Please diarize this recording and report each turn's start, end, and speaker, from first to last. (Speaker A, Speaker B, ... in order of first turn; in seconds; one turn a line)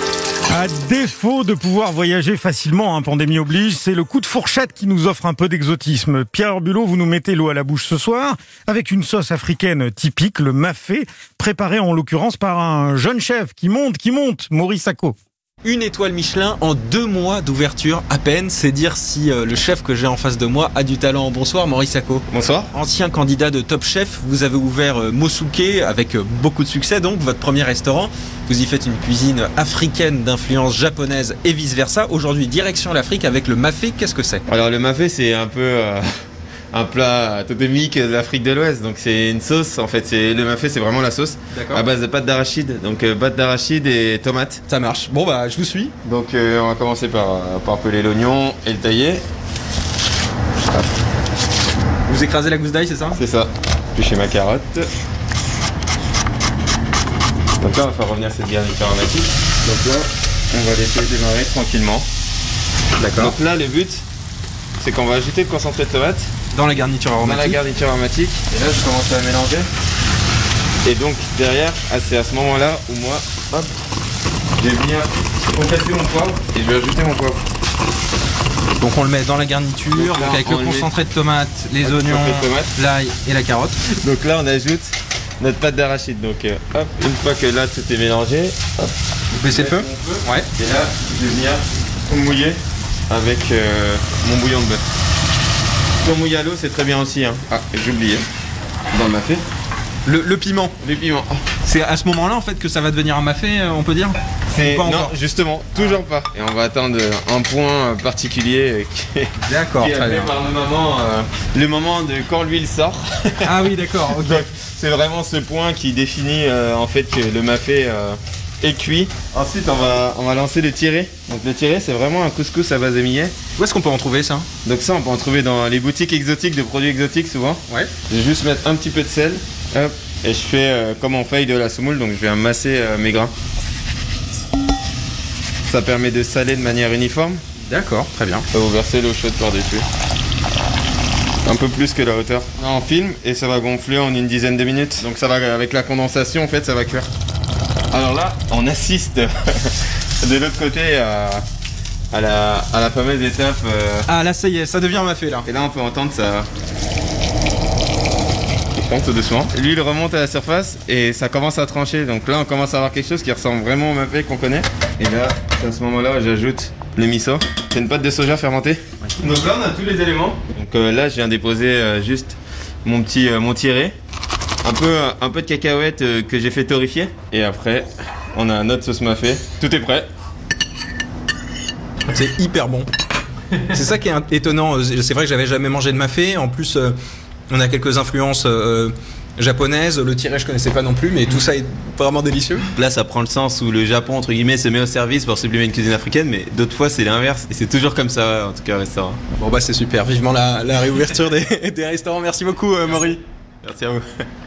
Speaker A: 0.5-15.2
Speaker B: 15.6-34.4
Speaker C: 22.3-22.7
Speaker C: 34.5-36.1
Speaker C: 36.7-44.6
Speaker B: 41.5-41.9
Speaker B: 44.7-45.9
Speaker C: 46.0-49.2
Speaker B: 52.1-53.2
Speaker C: 53.1-54.9
Speaker C: 57.6-62.1
Speaker B: 63.0-63.4
Speaker C: 63.1-64.0
Speaker C: 64.8-66.3
Speaker B: 66.5-67.6
Speaker C: 67.2-69.7
Speaker C: 70.8-73.7
Speaker C: 74.6-77.5
Speaker B: 78.8-83.8
Speaker C: 79.9-80.9
Speaker C: 81.8-82.8
Speaker C: 83.8-88.9
Speaker B: 89.3-90.5
Speaker C: 89.5-92.6
Speaker C: 93.1-94.8
Speaker C: 96.0-98.3
Speaker C: 98.9-99.4
Speaker B: 100.1-100.7
Speaker C: 100.8-101.5
Speaker B: 101.6-105.1
Speaker C: 104.5-123.3
Speaker B: 109.4-110.3
Speaker B: 113.4-114.5
Speaker B: 123.6-124.5
Speaker C: 124.6-133.3
Speaker C: 135.7-137.4
Speaker B: 137.6-138.5
Speaker C: 138.5-139.9
Speaker C: 141.4-147.1
Speaker C: 147.9-151.5
Speaker C: 152.1-154.1
Speaker B: 154.1-155.5
Speaker C: 155.4-156.5
Speaker C: 158.8-173.9
Speaker C: 174.6-180.1
Speaker B: 182.1-182.9
Speaker B: 183.7-187.0
Speaker B: 187.5-192.7
Speaker C: 192.8-199.2
Speaker B: 199.4-203.2
Speaker C: 203.6-204.0